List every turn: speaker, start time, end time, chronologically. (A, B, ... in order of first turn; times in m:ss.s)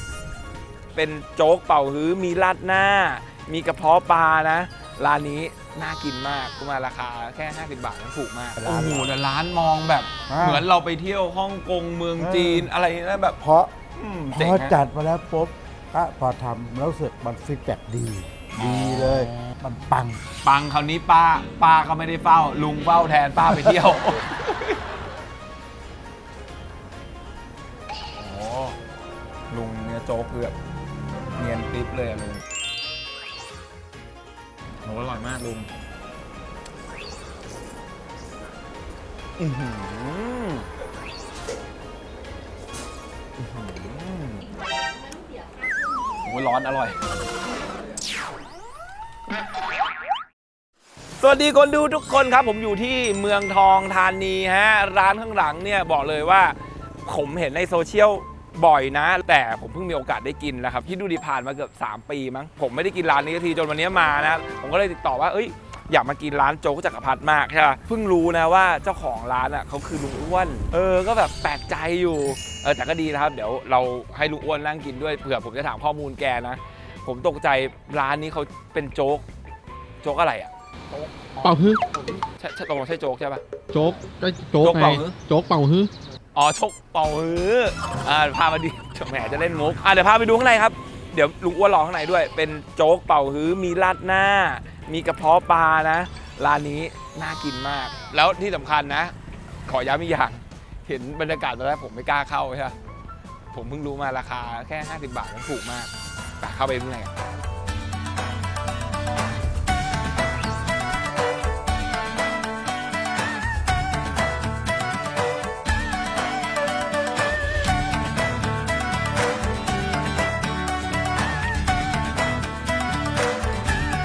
0:00.9-0:13.4 A
0:08.6-0:09.1 B
0:10.3-0:10.6 B
0:12.2-0:12.7 B
0:13.4-0:13.7 B
0:14.0-0:14.8 A
0:14.3-0:20.2 B
0:18.6-0:19.5 A
0:20.4-0:24.8 A
0:23.5-0:23.8 B
0:28.2-0:28.8 A
0:29.5-0:30.6 A
0:31.4-0:32.4 A
0:34.8-0:35.7 A
0:39.4-0:40.7 A
0:43.4-0:44.5 A
0:46.2-0:47.0 A
0:51.2-1:19.2 A
1:20.0-1:21.6 A
1:21.4-1:21.8 C
1:22.4-1:23.4 A
1:23.7-1:25.9 C
1:24.6-1:25.2 A
1:26.4-1:39.1 A
1:39.7-1:42.8 A
1:43.5-1:47.2 A